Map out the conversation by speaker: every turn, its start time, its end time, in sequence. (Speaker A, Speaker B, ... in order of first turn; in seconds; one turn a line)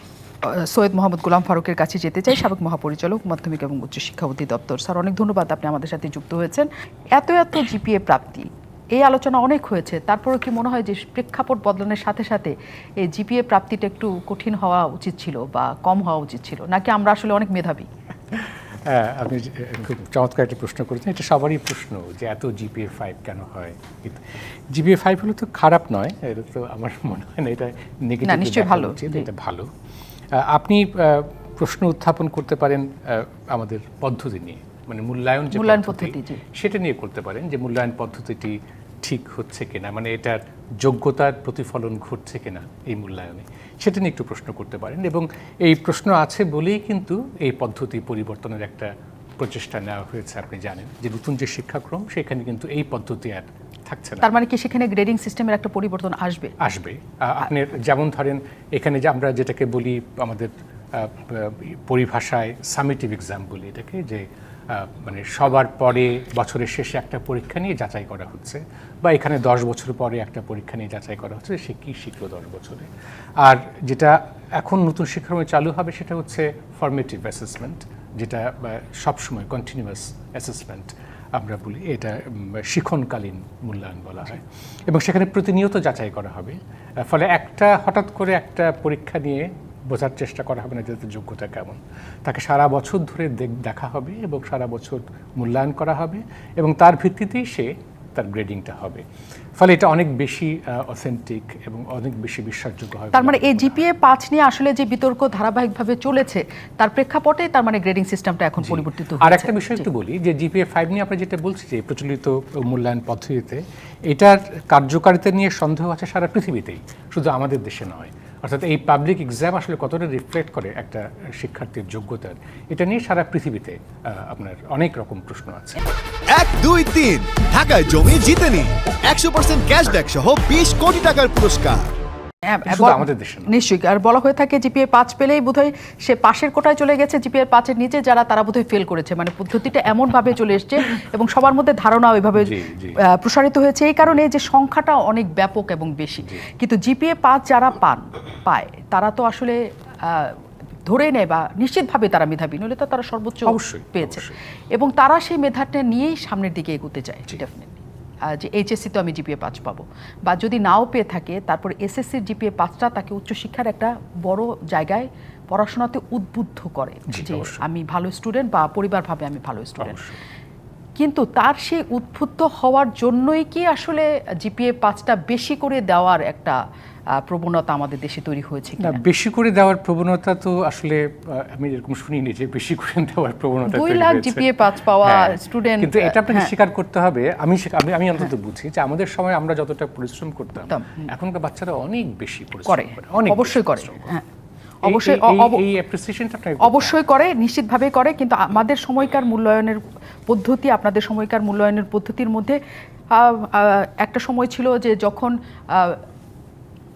Speaker A: 0.5-17.9
Speaker B: 18.3-29.7
Speaker A: 28.2-29.3
Speaker B: 30.3-54.3
Speaker A: 35.5-36.4
Speaker A: 54.2-56.5
Speaker B: 56.6-72.9
Speaker B: 73.4-99.0
Speaker B: 99.6-103.8
Speaker A: 103.1-109.9
Speaker B: 108.6-125.8
Speaker C: 126.3-131.9
Speaker A: 132.5-170.0
Speaker B: 132.7-133.5
Speaker B: 142.3-143.0
Speaker B: 153.5-154.4
Speaker B: 167.1-167.6
Speaker B: 169.8-170.2
Speaker A: 171.0-176.6
Speaker A: 177.2-179.0
Speaker B: 178.8-184.5
Speaker A: 183.7-186.5
Speaker B: 185.0-194.2
Speaker A: 190.7-191.1
Speaker A: 192.7-194.2
Speaker A: 194.8-195.7
Speaker B: 194.9-197.0
Speaker A: 196.6-202.6
Speaker A: 203.1-206.0